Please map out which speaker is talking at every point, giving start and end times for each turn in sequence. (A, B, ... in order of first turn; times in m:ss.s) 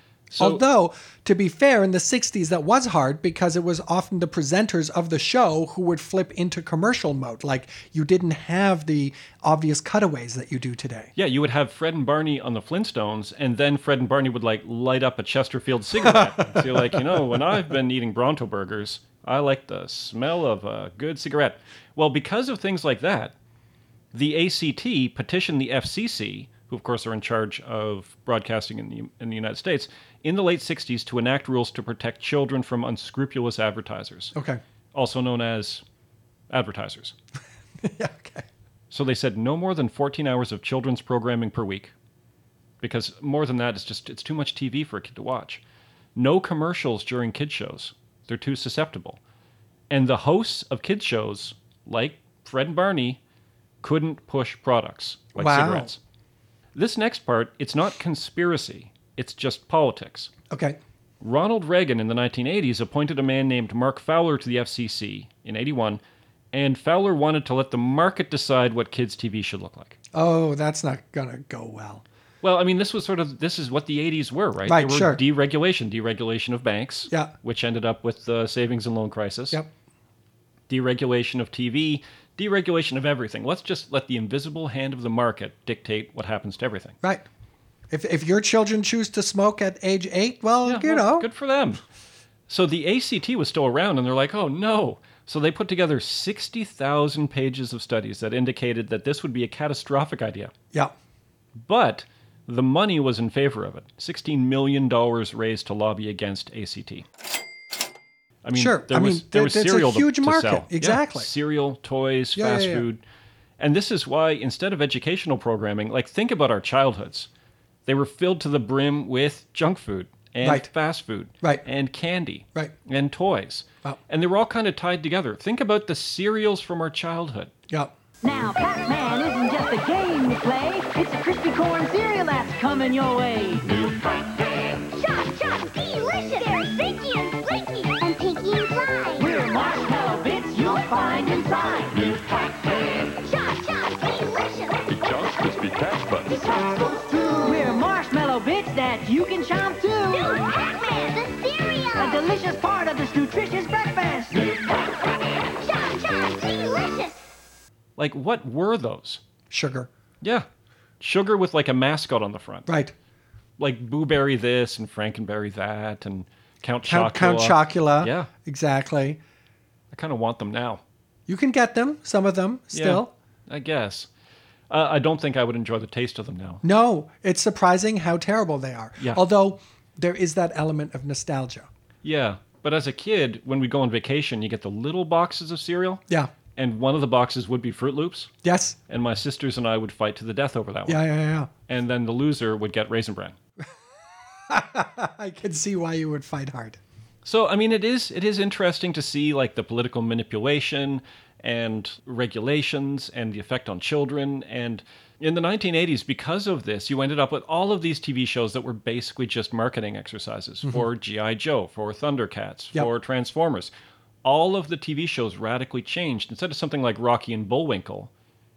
0:00.3-0:00.6 A
0:00.4-0:11.1 B
0:11.2-0:23.3 A
0:16.0-0:17.2 B
0:24.1-0:34.3 A
0:34.4-0:34.6 B
0:34.9-0:35.8 A
0:36.5-0:37.2 A
0:37.8-0:38.5 B
0:38.9-0:41.9 A
0:42.8-0:45.6 A
0:46.2-0:49.2 A
0:49.9-0:53.2 A
0:53.8-0:56.0 A
0:55.4-0:55.9 B
0:56.8-1:00.3 A
1:00.5-1:00.8 B
1:01.2-1:06.0 A
1:06.5-1:10.0 A
1:10.1-1:12.0 B
1:12.4-1:19.6 A
1:14.7-1:15.2 B
1:20.7-1:27.0 A
1:27.9-1:31.3 B
1:30.6-1:31.8 A
1:32.5-1:40.5 A
1:41.6-1:47.0 A
1:48.4-1:53.0 A
1:48.5-1:51.3 B
1:52.4-1:52.9 B
1:53.6-1:57.3 A
1:57.9-2:07.5 A
2:00.4-2:00.7 B
2:08.2-2:14.0 C
2:13.8-2:19.4 D
2:19.2-2:22.4 C
2:20.8-2:21.4 D
2:22.2-2:27.5 D
2:26.2-2:30.3 C
2:30.2-2:32.4 D
2:32.0-2:34.7 C
2:34.7-2:37.2 D
2:38.0-2:39.2 A
2:39.5-2:39.9 B
2:40.2-2:40.5 A
2:41.0-2:42.7 A
2:42.7-2:42.9 B
2:43.6-2:48.3 A
2:46.8-2:49.2 B
2:49.9-2:50.8 A
2:51.3-2:53.1 B
2:52.7-2:54.1 A
2:54.7-2:56.6 A
2:56.6-3:01.7 B
3:02.0-3:06.0 A
3:06.6-3:08.3 A
3:08.4-3:08.8 B
3:08.9-3:11.0 A
3:10.9-3:11.5 B
3:11.7-3:13.4 A
3:14.4-3:16.8 B
3:17.2-3:33.7 A
3:34.2-3:38.1 A